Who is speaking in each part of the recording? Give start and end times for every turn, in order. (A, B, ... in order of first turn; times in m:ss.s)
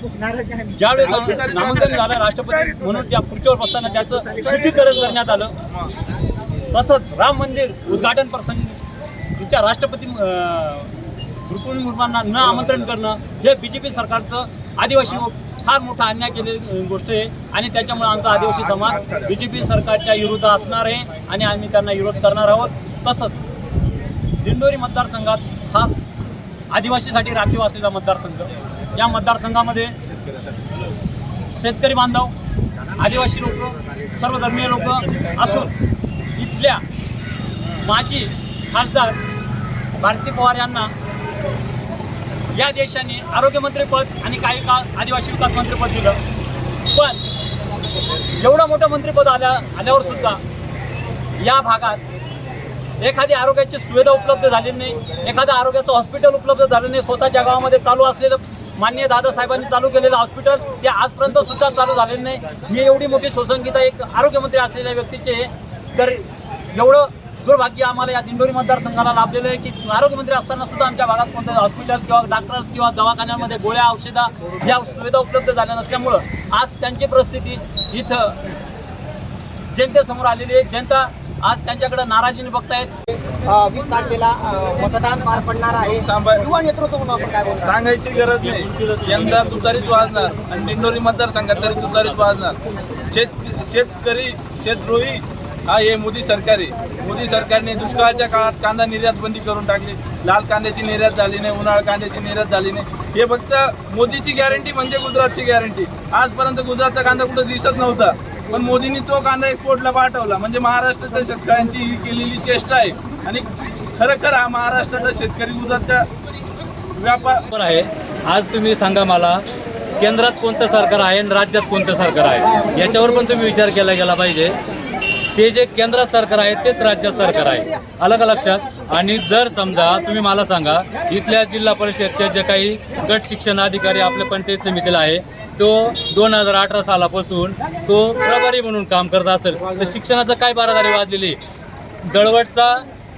0:00.7-0:05.5 A
0:01.0-0:02.7 B
0:06.7-0:08.8 A
0:09.4-0:10.9 A
0:11.4-0:23.4 A
0:24.4-0:26.0 A
0:26.7-0:29.9 A
0:31.5-0:32.3 A
0:32.9-0:35.7 A
0:36.3-0:36.8 A
0:37.8-0:39.2 A
0:39.9-0:40.9 A
0:42.5-0:46.2 A
0:46.9-0:47.2 A
0:48.3-0:50.4 A
0:51.4-0:52.0 A
0:53.0-1:18.4 A
1:19.7-1:22.9 A
1:23.1-1:27.8 C
1:26.0-1:26.4 B
1:27.6-1:32.6 B
1:33.1-1:56.0 B
1:57.0-1:57.4 B
1:57.5-1:59.4 D
2:00.0-2:04.6 D
2:05.3-2:21.4 D
2:22.0-2:22.8 D